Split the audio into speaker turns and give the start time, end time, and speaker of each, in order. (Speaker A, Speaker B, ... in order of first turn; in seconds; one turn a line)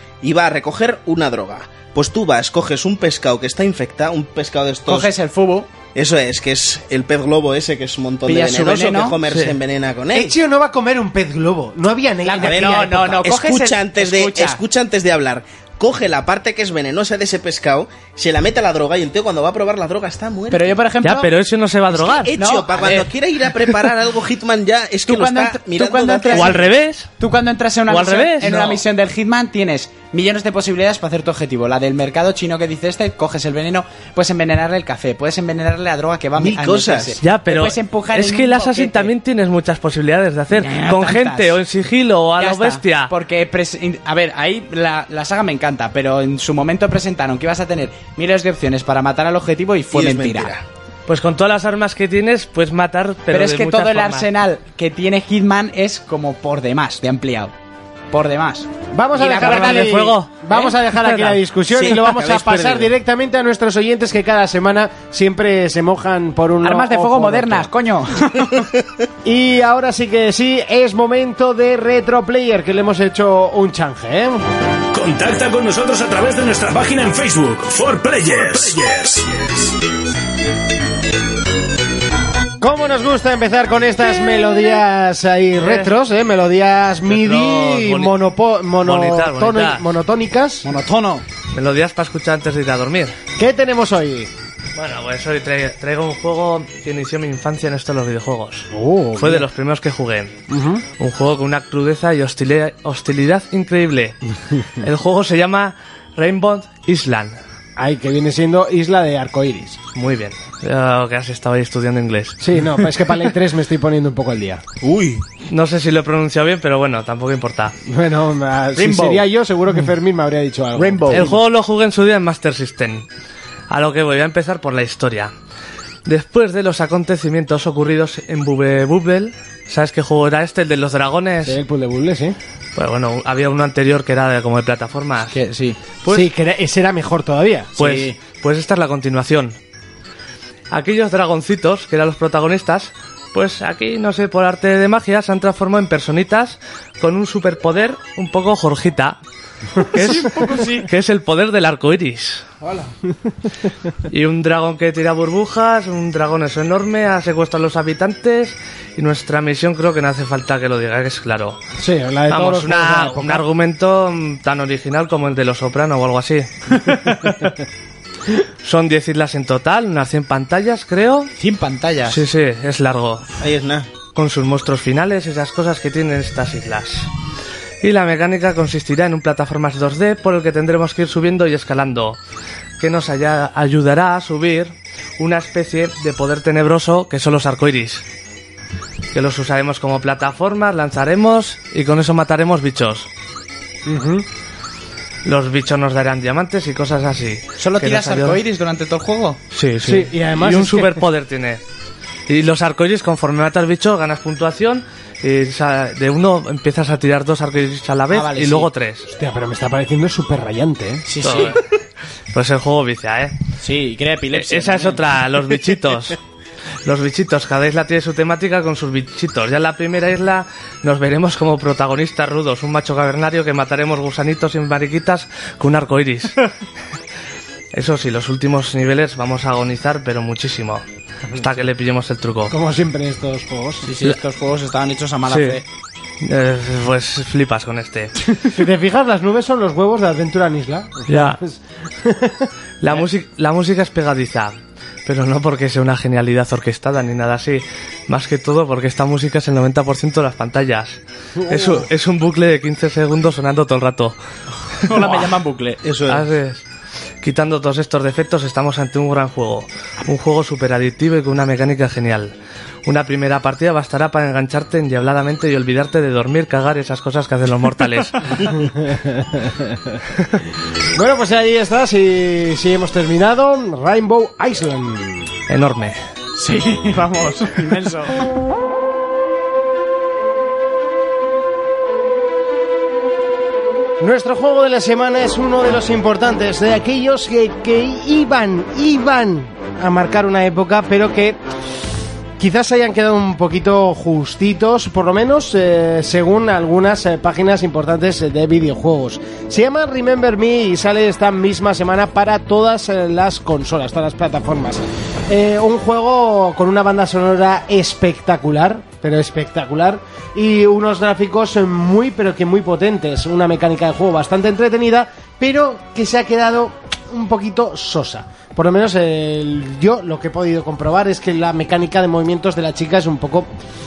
Speaker A: 0.2-5.1
Speaker B: 4.9-5.7
Speaker A: 6.0-10.3
Speaker B: 8.3-9.2
Speaker C: 9.3-9.6
Speaker D: 10.1-13.2
Speaker B: 12.2-14.6
Speaker A: 12.4-20.8
Speaker B: 20.5-21.3
Speaker C: 21.0-22.3
Speaker A: 21.9-26.7
Speaker B: 22.3-23.1
Speaker B: 25.1-39.1
Speaker C: 26.3-27.1
Speaker C: 27.9-28.6
Speaker A: 28.5-28.8
Speaker A: 36.4-37.2
Speaker C: 37.2-43.1
Speaker B: 40.5-41.6
Speaker B: 42.4-50.5
Speaker A: 49.9-50.6
Speaker C: 51.1-54.3
Speaker B: 53.3-57.5
Speaker B: 58.1-60.0
Speaker D: 58.9-67.7
Speaker C: 59.4-61.4
Speaker A: 61.7-62.9
Speaker B: 66.6-68.7
Speaker D: 69.2-74.5
Speaker E: 74.9-79.7
Speaker D: 82.6-90.7
Speaker C: 85.6-85.9
Speaker C: 87.1-88.2
Speaker C: 88.8-89.9
Speaker B: 90.6-91.2
Speaker C: 91.5-93.2
Speaker D: 93.4-94.3
Speaker C: 94.8-100.3
Speaker D: 98.7-99.5
Speaker D: 100.5-100.8
Speaker C: 101.0-104.2
Speaker C: 104.8-107.4
Speaker D: 107.8-109.8
Speaker C: 110.0-112.4
Speaker D: 112.4-114.6
Speaker A: 114.8-115.2
Speaker C: 115.5-117.7
Speaker D: 117.9-121.4
Speaker B: 118.8-119.3
Speaker B: 120.8-121.3
Speaker C: 121.1-123.1
Speaker C: 123.7-125.3
Speaker C: 126.1-131.6
Speaker D: 131.4-132.4
Speaker C: 132.8-135.4
Speaker B: 135.3-135.8
Speaker C: 136.0-136.3
Speaker D: 136.1-137.8
Speaker B: 137.8-138.2
Speaker C: 137.8-139.6
Speaker C: 140.7-149.2
Speaker C: 149.8-152.5
Speaker B: 149.8-150.9
Speaker C: 154.1-161.6
Speaker D: 161.8-163.4
Speaker C: 162.3-167.3
Speaker B: 166.9-167.2
Speaker C: 168.6-171.3
Speaker B: 171.4-172.2
Speaker C: 172.1-173.3
Speaker A: 173.4-173.9
Speaker C: 174.2-177.1
Speaker C: 177.8-182.2
Speaker C: 182.8-188.1
Speaker C: 189.1-193.1
Speaker D: 193.9-194.3
Speaker C: 195.2-198.4
Speaker B: 197.6-199.4
Speaker C: 199.5-201.6
Speaker D: 199.8-201.0
Speaker C: 202.3-209.1
Speaker B: 208.1-208.7
Speaker D: 209.1-211.1
Speaker B: 211.1-211.6
Speaker C: 211.2-211.6
Speaker C: 212.3-213.3
Speaker B: 213.6-215.0
Speaker C: 214.3-216.2
Speaker C: 216.8-226.5
Speaker C: 227.7-232.6
Speaker D: 232.5-233.9
Speaker B: 233.8-235.7
Speaker C: 235.3-235.6
Speaker C: 236.2-238.3
Speaker D: 238.4-242.5
Speaker C: 241.1-241.4
Speaker C: 242.8-254.2
Speaker D: 251.4-251.9
Speaker B: 254.8-255.8
Speaker A: 255.8-256.3
Speaker C: 256.1-256.6
Speaker C: 257.2-262.3
Speaker C: 262.9-268.6
Speaker D: 268.6-270.0
Speaker D: 270.9-275.3
Speaker C: 275.5-276.0
Speaker B: 276.4-278.3
Speaker D: 284.0-291.4
Speaker D: 292.4-323.5